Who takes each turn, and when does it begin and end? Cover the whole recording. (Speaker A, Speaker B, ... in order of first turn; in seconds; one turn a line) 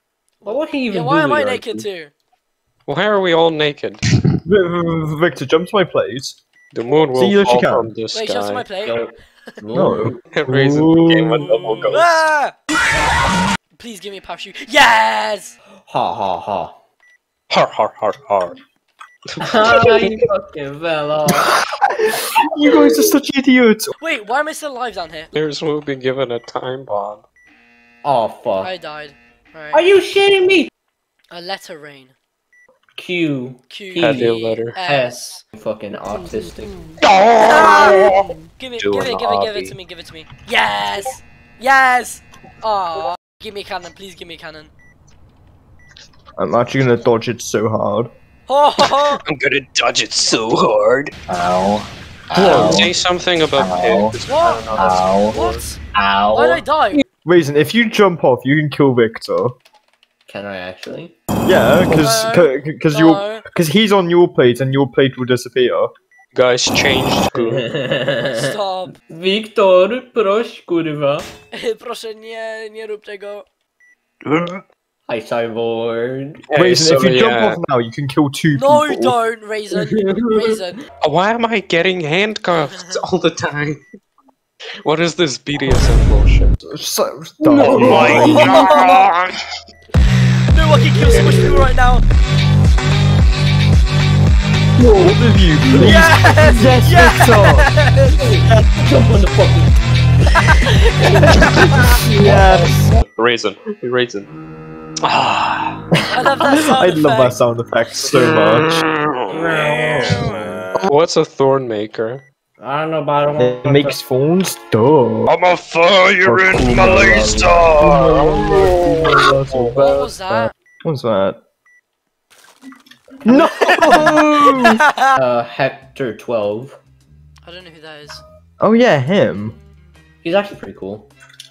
Speaker A: 0.4-1.9
Speaker B: 0.9-2.1
Speaker C: 2.9-4.0
Speaker D: 4.5-6.4
Speaker C: 6.7-8.7
Speaker D: 7.1-7.9
Speaker B: 8.1-9.6
Speaker A: 8.8-10.2
Speaker D: 9.7-11.5
Speaker C: 10.3-12.1
Speaker B: 11.4-12.6
Speaker B: 13.8-15.6
Speaker A: 15.8-16.8
Speaker C: 17.5-18.6
Speaker C: 19.3-20.2
Speaker A: 19.4-21.5
Speaker D: 22.1-23.9
Speaker B: 24.0-25.3
Speaker C: 25.3-27.2
Speaker A: 28.0-28.7
Speaker B: 28.6-29.9
Speaker A: 29.7-30.7
Speaker B: 31.3-32.1
Speaker A: 33.0-36.8
Speaker B: 33.7-35.4
Speaker C: 34.0-34.8
Speaker C: 37.0-38.2
Speaker B: 37.3-44.7
Speaker C: 38.8-39.7
Speaker D: 46.4-48.1
Speaker B: 48.5-49.2
Speaker C: 48.8-51.1
Speaker E: 51.3-52.9
Speaker C: 52.3-55.7
Speaker A: 52.4-52.8
Speaker E: 53.5-54.1
Speaker B: 54.3-54.8
Speaker E: 54.7-55.4
Speaker B: 55.3-57.0
Speaker E: 55.9-56.6
Speaker D: 57.2-59.6
Speaker A: 60.3-61.2
Speaker D: 61.5-65.9
Speaker B: 61.9-63.4
Speaker C: 66.3-67.7
Speaker A: 67.3-71.3
Speaker B: 68.3-68.9
Speaker B: 71.5-73.5
Speaker A: 75.0-76.4
Speaker C: 76.5-77.6
Speaker D: 76.5-79.2
Speaker B: 78.5-80.8
Speaker A: 79.7-80.6
Speaker C: 81.0-83.8
Speaker B: 82.6-83.0
Speaker C: 84.8-86.5
Speaker D: 86.6-88.6
Speaker C: 87.6-89.3
Speaker A: 87.7-88.1
Speaker B: 88.1-89.1
Speaker B: 90.5-92.0
Speaker D: 94.9-97.7
Speaker B: 95.8-98.2
Speaker A: 98.1-99.7
Speaker B: 100.3-102.0
Speaker A: 101.1-103.0
Speaker D: 102.1-102.8
Speaker C: 103.1-104.3
Speaker C: 105.0-105.8
Speaker D: 106.0-108.8
Speaker B: 106.1-107.4
Speaker C: 108.1-110.1
Speaker A: 109.3-110.6
Speaker C: 110.7-112.2
Speaker A: 112.6-114.0
Speaker D: 113.3-115.4
Speaker C: 115.3-120.1
Speaker D: 116.2-117.2
Speaker E: 116.3-119.5
Speaker D: 117.9-119.8
Speaker B: 119.7-120.5
Speaker D: 120.8-121.4
Speaker D: 123.2-124.8
Speaker B: 123.3-125.1
Speaker A: 125.2-126.8
Speaker B: 127.4-128.2
Speaker D: 128.6-129.6
Speaker A: 130.2-131.1